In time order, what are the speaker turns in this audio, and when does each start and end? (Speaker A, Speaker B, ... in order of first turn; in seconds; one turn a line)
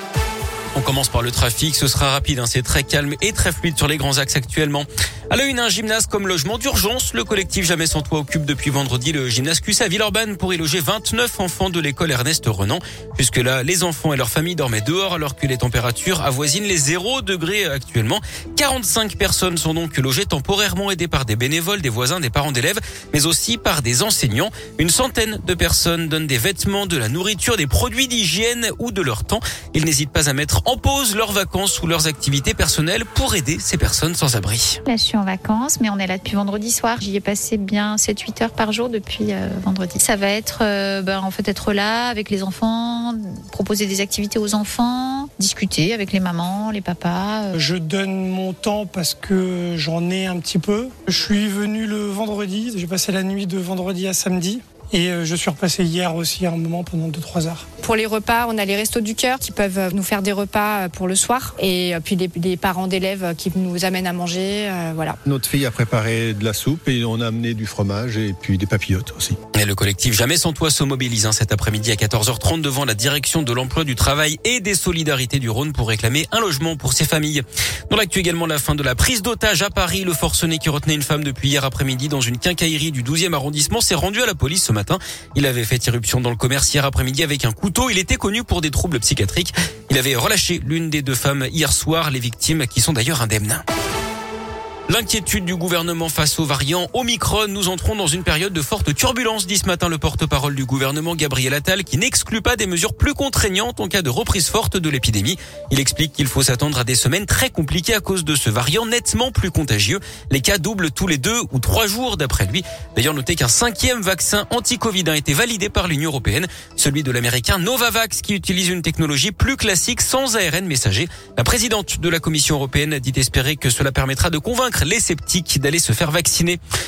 Speaker A: 0.7-34.8
Speaker B: 34.9-47.5
Speaker C: 47.5-57.6
Speaker D: 57.8-65.2
Speaker E: 65.2-69.4
Speaker A: 69.5-93.6
Speaker A: 94.9-126.6